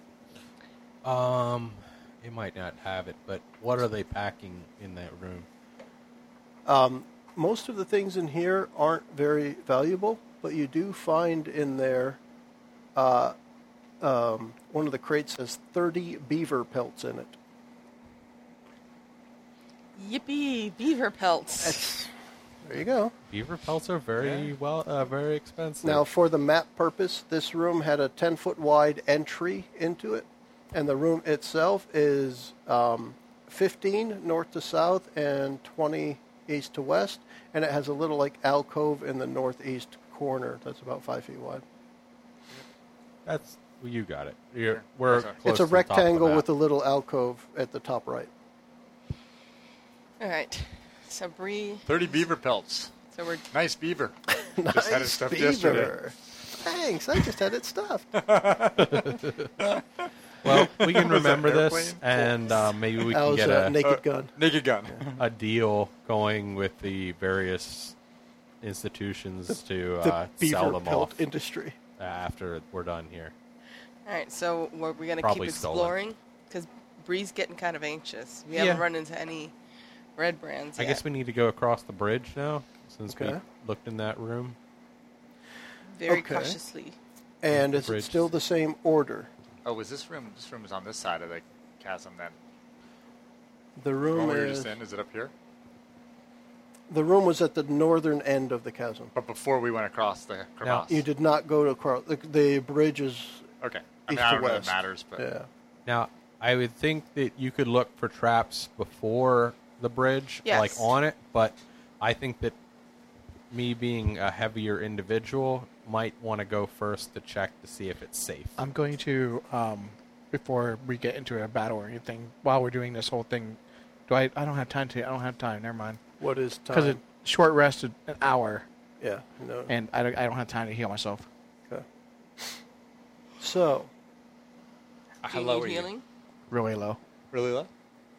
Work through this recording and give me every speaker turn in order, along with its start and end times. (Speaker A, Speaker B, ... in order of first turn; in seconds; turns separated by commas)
Speaker A: 1.0-5.5, Speaker B: 6.7-12.2, Speaker B: 12.9-13.3, Speaker B: 14.0-17.4, Speaker C: 19.9-22.0, Speaker B: 21.6-22.1, Speaker B: 22.6-23.1, Speaker A: 23.3-26.1, Speaker D: 24.2-24.5, Speaker B: 25.8-41.6, Speaker A: 43.3-46.5, Speaker D: 44.7-45.3, Speaker B: 45.4-48.3, Speaker C: 50.2-52.0, Speaker D: 51.9-52.9, Speaker C: 53.1-53.4, Speaker D: 53.5-54.1, Speaker B: 54.3-58.2, Speaker D: 54.7-56.0, Speaker D: 58.2-62.4, Speaker A: 58.8-59.5, Speaker A: 60.4-63.8, Speaker B: 63.1-64.3, Speaker D: 63.8-65.2, Speaker A: 65.2-68.0, Speaker A: 68.6-71.2, Speaker B: 70.0-71.8, Speaker A: 72.0-73.3, Speaker C: 74.1-79.5, Speaker A: 75.2-76.0, Speaker C: 80.2-81.0, Speaker A: 80.8-84.6, Speaker B: 83.1-83.4, Speaker C: 85.9-87.0, Speaker B: 86.1-86.6, Speaker B: 87.4-89.3, Speaker A: 87.6-88.3, Speaker D: 89.6-92.3, Speaker B: 93.8-94.8, Speaker D: 94.1-95.3, Speaker B: 96.9-99.1, Speaker D: 99.1-101.0, Speaker A: 100.6-101.0, Speaker B: 100.9-103.5, Speaker D: 103.6-105.3, Speaker B: 104.1-105.5, Speaker A: 105.9-112.6, Speaker C: 110.5-110.9, Speaker A: 113.5-118.6, Speaker E: 118.6-126.0, Speaker B: 126.2-127.0, Speaker E: 126.7-128.7, Speaker B: 129.0-129.7, Speaker E: 129.7-131.3, Speaker B: 133.4-133.9, Speaker D: 135.2-135.9, Speaker C: 135.3-136.0, Speaker E: 136.5-137.0, Speaker D: 137.3-137.7